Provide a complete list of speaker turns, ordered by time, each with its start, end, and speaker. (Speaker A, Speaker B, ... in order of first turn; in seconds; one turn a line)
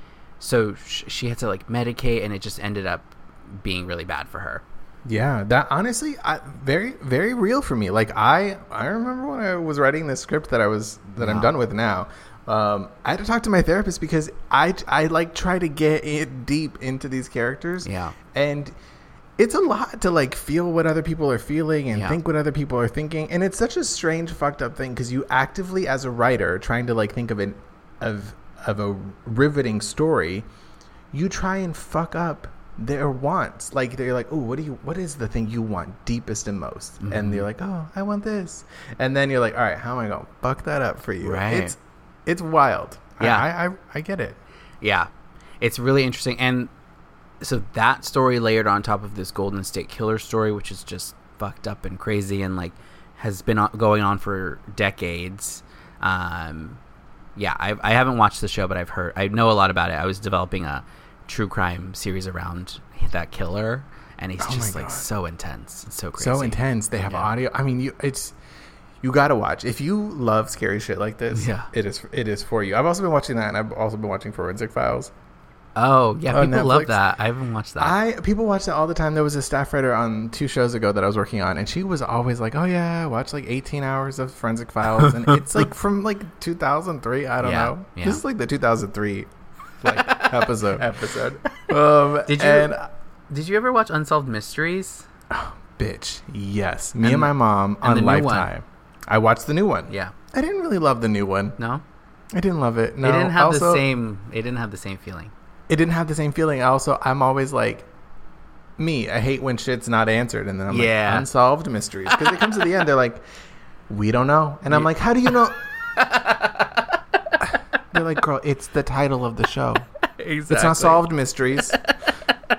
Speaker A: 0.4-4.6
Speaker B: 5.0-18.8
Speaker A: 11.2-11.5
Speaker A: 17.8-18.1
Speaker B: 19.4-30.4
Speaker A: 21.9-22.2
Speaker B: 31.1-44.4
Speaker A: 37.0-37.5
Speaker A: 41.2-41.8
Speaker A: 43.2-43.5
Speaker A: 44.8-45.1
Speaker A: 45.6-46.7
Speaker A: 47.4-56.8
Speaker A: 57.4-67.3
Speaker B: 64.4-65.1
Speaker B: 66.2-68.3
Speaker B: 69.0-75.1
Speaker A: 71.3-71.7
Speaker A: 75.8-78.0
Speaker B: 76.3-77.0
Speaker B: 77.8-89.3
Speaker A: 85.0-85.4
Speaker A: 87.4-88.2
Speaker A: 89.8-91.7
Speaker B: 89.8-90.9
Speaker B: 91.7-92.8
Speaker A: 92.2-92.7
Speaker A: 93.3-95.1
Speaker B: 95.3-101.6
Speaker A: 97.0-98.5
Speaker A: 99.9-100.1
Speaker A: 101.6-101.8
Speaker B: 102.3-103.8
Speaker A: 103.0-105.3
Speaker B: 105.7-107.9
Speaker B: 108.8-113.2
Speaker A: 110.7-111.3
Speaker B: 113.9-115.6
Speaker A: 116.0-116.9
Speaker B: 117.9-119.9
Speaker A: 120.1-121.0
Speaker B: 120.5-121.8
Speaker A: 121.7-122.4